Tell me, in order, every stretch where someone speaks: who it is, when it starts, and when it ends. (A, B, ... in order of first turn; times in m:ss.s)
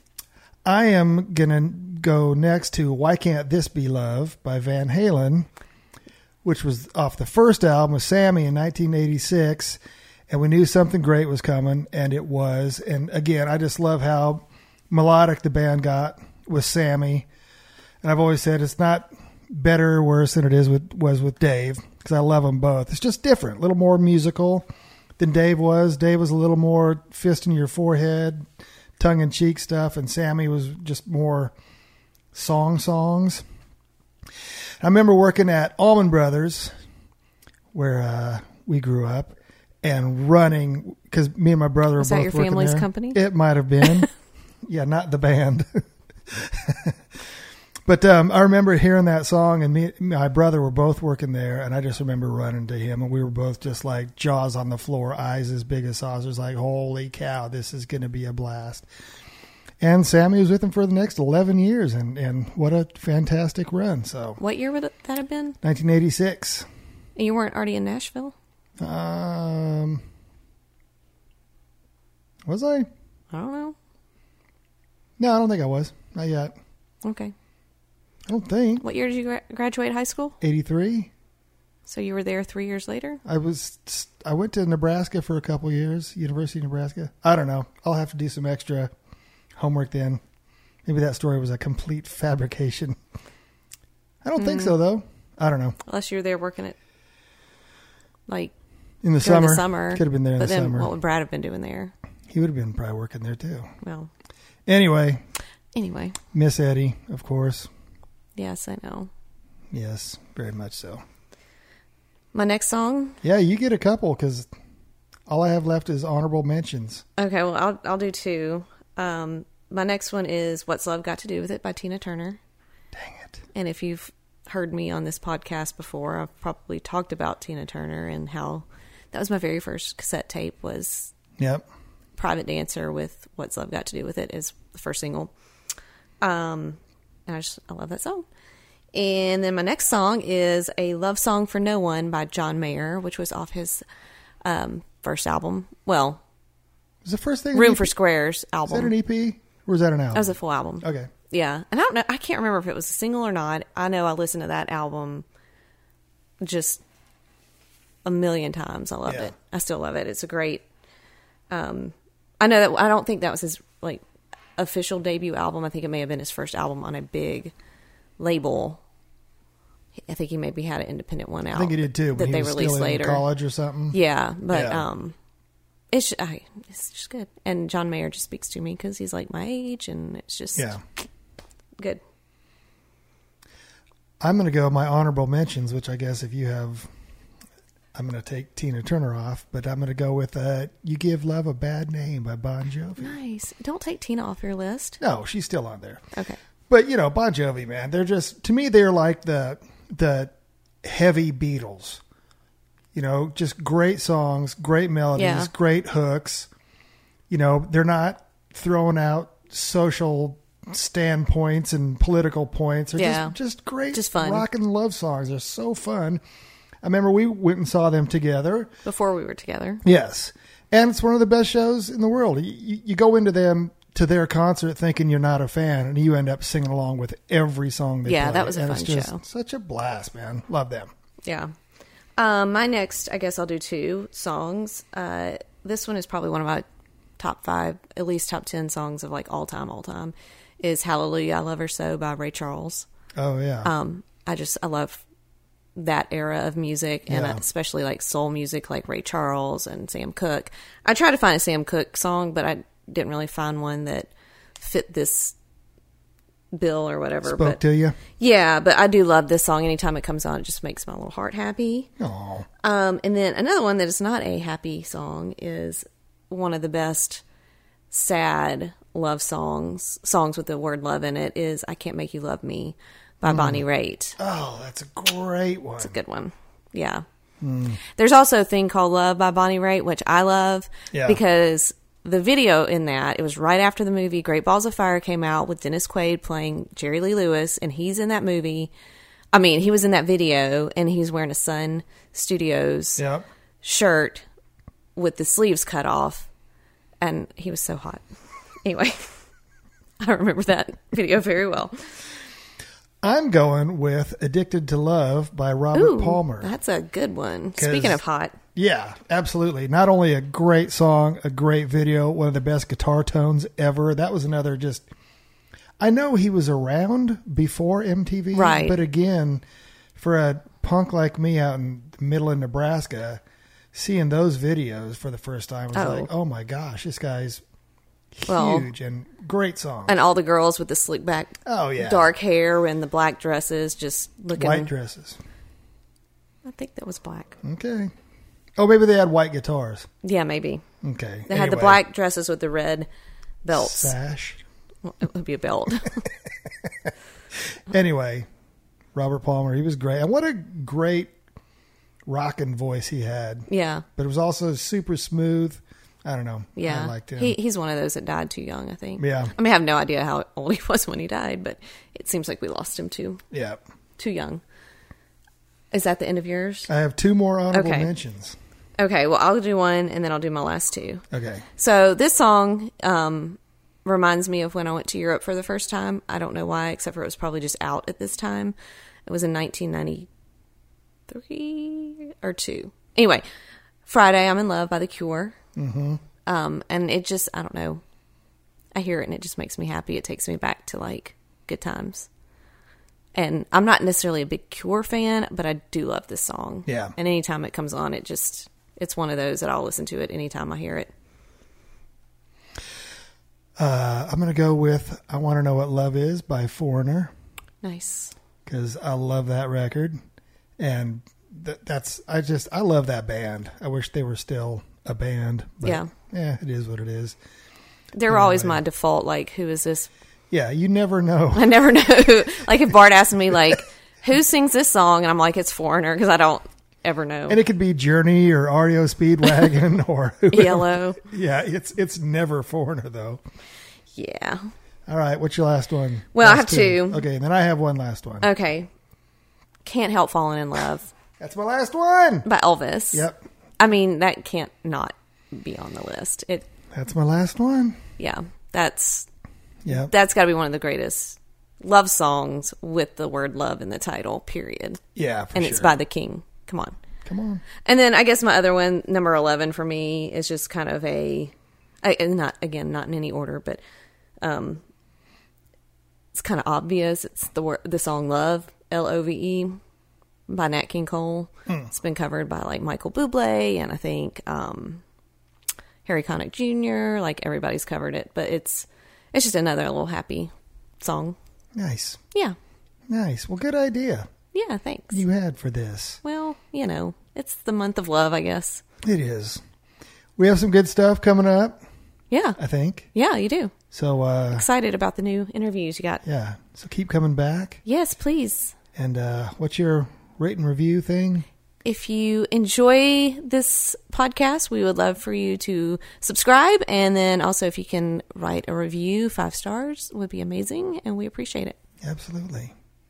0:00.6-0:05.5 A
0:06.4-0:09.8 A
0:10.3-0:17.3 A
0:18.0-0:24.7 A
0:25.2-0:28.4 A
0:29.0-0:31.5 A
0:32.3-0:33.4 A
0:34.8-0:36.7 A
0:37.7-0:44.1 A
0:42.0-0:43.2 B
0:43.8-0:44.1 B
0:44.7-0:47.0 A
0:47.9-0:58.9 A
0:59.8-1:04.4 A
1:04.4-1:05.6 B
1:05.6-1:06.7 A
1:07.2-1:08.4 B
1:08.8-1:10.0 A
1:12.5-1:12.9 A
1:13.3-1:13.8 B
1:15.2-1:16.5 A
1:17.0-1:17.3 B
1:18.3-1:18.8 A
1:18.8-1:20.4 B
1:20.4-1:21.1 A
1:21.9-1:23.2 B
1:23.2-1:28.9 A
1:29.6-1:30.2 A
1:30.9-1:33.0 A
1:34.2-1:35.8 A
1:34.4-1:34.8 B
1:35.8-1:36.8 B
1:38.3-1:38.5 B
1:39.0-1:40.9 A
1:39.2-1:41.9 B
1:42.3-1:43.7 A
1:43.8-1:44.1 B
1:44.7-1:45.2 A
1:45.8-1:46.2 B
1:46.3-1:47.7 A
1:48.4-1:49.1 B
1:49.7-1:51.0 A
1:52.3-1:53.2 B
1:53.2-1:54.5 A
1:55.3-1:57.0 A
1:57.2-2:02.4 B
2:02.9-2:03.4 A
2:03.5-2:11.1 B
2:11.4-2:11.6 A
2:12.2-2:15.3 B
2:16.2-2:18.3 B
2:18.9-2:23.8 B
2:24.4-2:26.2 B
2:27.0-2:27.9 A
2:27.5-2:28.9 B
2:28.7-2:31.1 A
2:30.1-2:35.2 B
2:36.4-2:36.8 B
2:38.0-2:40.6 B
2:39.1-2:39.3 A
2:41.5-2:44.0 B
2:44.6-2:47.5 B
2:48.2-2:48.8 B
2:50.1-2:53.3 B
2:51.5-2:54.0 A
2:53.9-2:55.2 B
2:54.5-2:54.8 A
2:55.9-3:00.8 B
3:04.2-3:06.9 A
3:08.0-3:13.2 A
3:13.0-3:15.0 B
3:15.0-3:16.0 A
3:16.1-3:16.4 B
3:16.7-3:22.0 A
3:22.9-3:26.5 A
3:25.2-3:25.5 B
3:27.3-3:36.2 A
3:33.0-3:33.4 B
3:33.9-3:34.5 B
3:36.8-3:38.7 A
3:38.8-3:39.8 B
3:39.8-3:50.9 A
3:48.0-3:49.2 B
3:51.2-3:51.5 B
3:52.2-3:56.6 B
3:57.2-4:02.9 B
4:03.2-4:03.7 A
4:03.6-4:05.0 B
4:05.8-4:15.4 B
4:07.1-4:07.4 A
4:16.5-4:17.6 B
4:17.2-4:18.0 A
4:18.2-4:21.9 B
4:22.0-4:22.5 A
4:22.6-4:27.2 B
4:27.9-4:34.2 B
4:33.3-4:33.6 A
4:34.2-4:36.0 A
4:35.8-4:37.0 B
4:37.4-4:37.8 A
4:37.9-4:48.7 B
4:40.9-4:41.2 A
4:49.3-4:53.0 B
4:53.0-4:53.2 A
4:53.6-4:54.2 B
4:55.0-4:56.3 B
4:57.0-4:58.0 B
4:58.6-4:59.1 B
5:00.0-5:01.9 B
5:03.0-5:06.5 A
5:05.7-5:08.4 B
5:07.6-5:08.0 A
5:08.6-5:14.9 A
5:15.8-5:19.4 A
5:18.3-5:18.8 B
5:20.0-5:23.2 A
5:23.7-5:27.4 A
5:25.7-5:26.1 B
5:28.2-5:30.0 A
5:28.3-5:28.7 B
5:29.9-5:34.7 B
5:31.5-5:32.1 A
5:34.3-5:35.2 A
5:36.4-5:37.4 B
5:37.4-5:37.9 A
5:38.6-5:39.9 A
5:40.0-5:40.6 B
5:40.8-5:41.8 A
5:41.3-5:42.9 B
5:43.4-5:44.0 B
5:43.5-5:44.4 A
5:44.8-5:46.0 B
5:47.7-5:48.3 A
5:49.0-5:51.1 A
5:52.1-5:57.4 A
5:53.5-5:53.8 B
5:56.6-6:03.2 B
5:59.0-5:59.3 A
6:03.3-6:03.6 A
6:04.0-6:04.4 B
6:05.7-6:06.7 B
6:06.7-6:08.4 A
6:07.5-6:07.9 B
6:08.8-6:11.0 B
6:11.1-6:11.5 A
6:11.6-6:18.6 B
6:19.1-6:20.1 B
6:21.1-6:23.2 B
6:23.9-6:25.4 B
6:25.6-6:26.0 A
6:26.3-6:27.8 B
6:28.7-6:32.1 B
6:33.2-6:40.9 B
6:36.7-6:36.9 A
6:43.6-6:47.1 A
6:47.6-6:48.1 B
6:48.5-6:50.0 A
6:50.6-6:57.2 A
6:55.6-6:55.9 B
6:57.9-6:59.9 B
6:58.1-6:58.6 A
7:00.3-7:01.5 A
7:01.3-7:07.4 B
7:07.3-7:13.2 A
7:10.3-7:11.0 B
7:14.0-7:14.5 B
7:14.9-7:18.3 A
7:16.1-7:17.0 B
7:18.2-7:18.7 B
7:19.6-7:20.9 B
7:21.2-7:22.3 A
7:22.2-7:23.1 B
7:22.9-7:23.2 A
7:23.6-7:26.5 B
7:26.7-7:27.8 A
7:28.0-7:29.1 B
7:29.6-7:29.9 A
7:29.7-7:34.8 B
7:35.0-7:35.8 A
7:35.4-7:36.8 B
7:37.1-7:37.4 A
7:37.6-7:43.6 B
7:44.2-7:44.6 B
7:46.2-7:49.5 B
7:50.3-7:54.8 B
7:55.8-8:01.2 B
8:01.6-8:02.0 A
8:02.9-8:04.1 A
8:04.3-8:05.0 B
8:04.9-8:06.0 A
8:06.0-8:08.6 B
8:08.8-8:09.4 A
8:10.2-8:11.6 A
8:12.1-8:12.4 B
8:12.4-8:12.9 A
8:12.9-8:13.5 B
8:13.7-8:14.5 A
8:14.3-8:16.0 B
8:16.0-8:17.6 A
8:17.6-8:18.6 B
8:18.8-8:21.2 A
8:21.6-8:31.6 B
8:31.8-8:32.5 A